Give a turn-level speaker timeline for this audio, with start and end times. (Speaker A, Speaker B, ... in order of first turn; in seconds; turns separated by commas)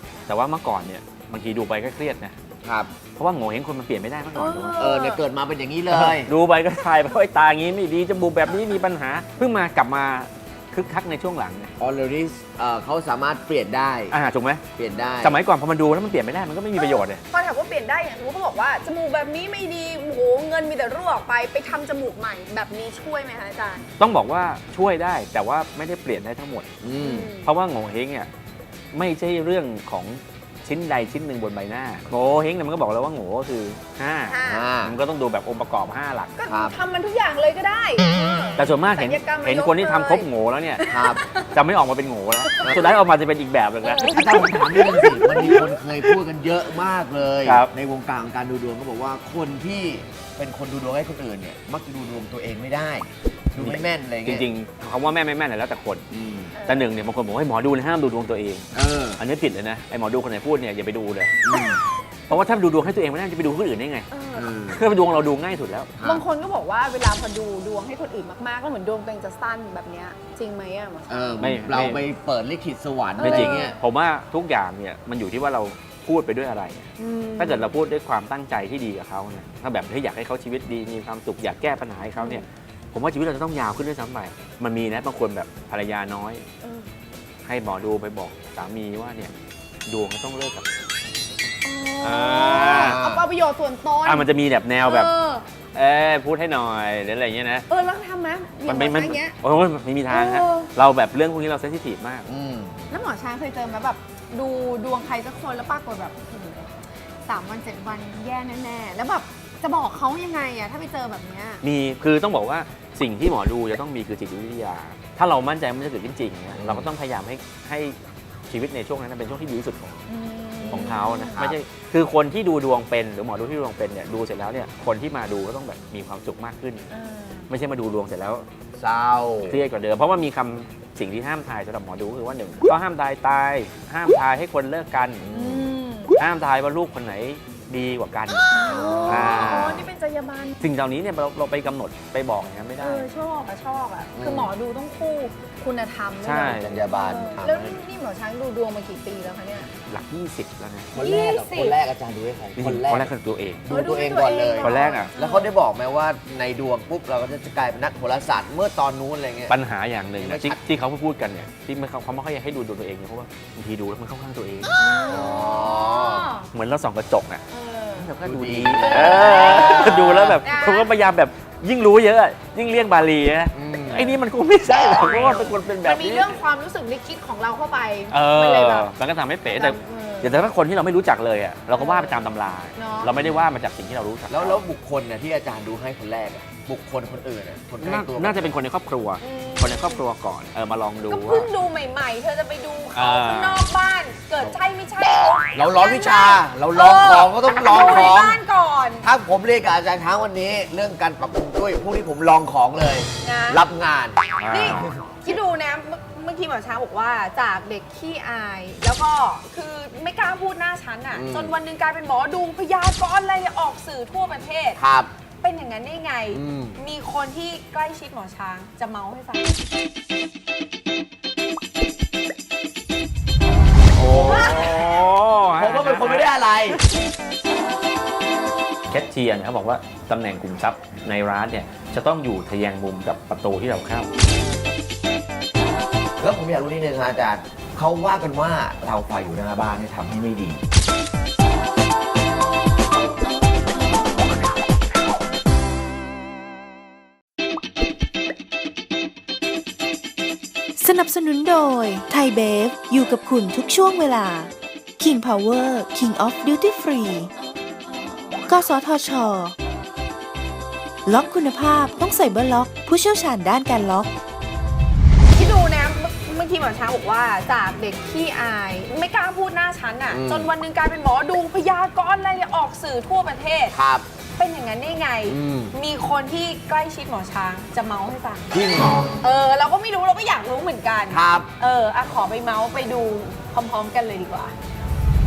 Speaker A: 0.3-2.4, Speaker B: 2.6-2.9, Speaker A: 3.2-4.8, Speaker C: 4.3-5.2, Speaker B: 4.8-6.3, Speaker A: 5.9-11.7, Speaker B: 11.8-14.1, Speaker A: 14.1-14.6, Speaker B: 14.8-15.4, Speaker A: 15.2-17.2, Speaker C: 16.8-23.8, Speaker A: 24.0-26.7, Speaker B: 26.8-27.3, Speaker C: 27.0-27.5, Speaker A: 27.4-28.3, Speaker A: 28.9-36.3, Speaker C: 34.3-34.7, Speaker B: 34.5-34.9, Speaker C: 36.4-40.3, Speaker B: 36.5-36.7, Speaker A: 38.6-40.8, Speaker C: 40.8-41.5, Speaker B: 40.9-41.2, Speaker A: 41.5-44.8, Speaker B: 42.6-42.9, Speaker C: 43.8-45.7, Speaker B: 44.0-54.5, Speaker A: 47.4-47.7, Speaker A: 53.6-56.0, Speaker B: 56.1-56.5, Speaker C: 56.5-56.9, Speaker A: 56.7-61.4, Speaker B: 58.7-59.2, Speaker B: 61.4-61.8, Speaker A: 62.3-64.1, Speaker C: 64.1-64.5, Speaker B: 64.3-64.8, Speaker A: 64.7-65.9, Speaker B: 66.0-66.2, Speaker C: 66.0-71.3, Speaker B: 71.1-73.8, Speaker A: 71.4-72.0, Speaker C: 73.2-73.8, Speaker A: 73.2-86.5, Speaker C: 77.0-77.7, Speaker C: 82.2-82.4, Speaker C: 86.6-86.9, Speaker A: 87.4-89.3, Speaker A: 89.9-90.7, Speaker C: 91.6-94.3, Speaker A: 92.0-93.0, Speaker B: 92.7-93.2, Speaker A: 94.0-95.1, Speaker C: 94.8-95.4, Speaker A: 95.7-97.7, Speaker C: 97.7-99.3, Speaker A: 98.7-102.3, Speaker C: 100.1-100.7, Speaker B: 102.3-102.8, Speaker C: 102.9-106.7, Speaker C: 107.2-111.6, Speaker A: 111.6-118.0, Speaker B: 116.5-116.9, Speaker A: 118.5-120.0, Speaker C: 120.1-121.5, Speaker A: 120.7-126.8, Speaker C: 126.9-127.5, Speaker A: 127.5-128.4, Speaker B: 128.8-129.6, Speaker A: 129.5-135.2, Speaker B: 135.2-135.8, Speaker C: 135.3-136.2, Speaker A: 136.2-139.8, Speaker C: 138.5-140.6, Speaker B: 138.7-139.8, Speaker A: 140.6-143.1, Speaker C: 142.8-149.7, Speaker B: 144.2-144.5, Speaker A: 146.2-146.8, Speaker B: 146.4-147.8, Speaker A: 149.9-150.9, Speaker B: 150.9-153.1, Speaker C: 151.0-151.8, Speaker A: 152.6-153.7, Speaker B: 153.7-159.6, Speaker C: 153.7-155.5, Speaker A: 154.6-155.1, Speaker A: 159.5-164.7, Speaker B: 160.2-160.6, Speaker C: 164.8-166.5, Speaker B: 165.1-166.3, Speaker A: 166.5-167.4, Speaker C: 167.5-168.1, Speaker A: 167.9-176.3, Speaker B: 168.2-170.3, Speaker C: 168.8-170.9, Speaker B: 173.5-174.2, Speaker C: 175.8-178.9, Speaker A: 178.1-184.4, Speaker C: 179.5-180.4, Speaker C: 181.7-183.1, Speaker B: 183.2-183.4, Speaker B: 184.3-188.5, Speaker A: 187.8-191.5, Speaker C: 189.2-190.0, Speaker C: 191.1-199.1, Speaker A: 192.9-193.7, Speaker B: 195.5-198.4, Speaker B: 199.0-205.0, Speaker C: 203.2-203.6, Speaker A: 204.4-204.9, Speaker C: 204.5-214.8, Speaker B: 211.1-211.5, Speaker B: 214.8-215.1, Speaker C: 215.4-219.5, Speaker B: 216.3-216.8, Speaker B: 223.9-224.9, Speaker A: 224.0-226.7, Speaker C: 224.3-224.6, Speaker B: 225.6-226.8, Speaker A: 228.9-234.1, Speaker B: 236.2-240.6, Speaker D: 250.8-257.3, Speaker D: 258.5-259.6, Speaker D: 261.0-264.1, Speaker C: 265.3-273.7, Speaker B: 270.1-270.5, Speaker B: 273.7-274.1, Speaker C: 274.4-278.5, Speaker B: 275.2-275.7, Speaker B: 278.5-279.2, Speaker C: 279.2-284.5, Speaker B: 281.1-281.5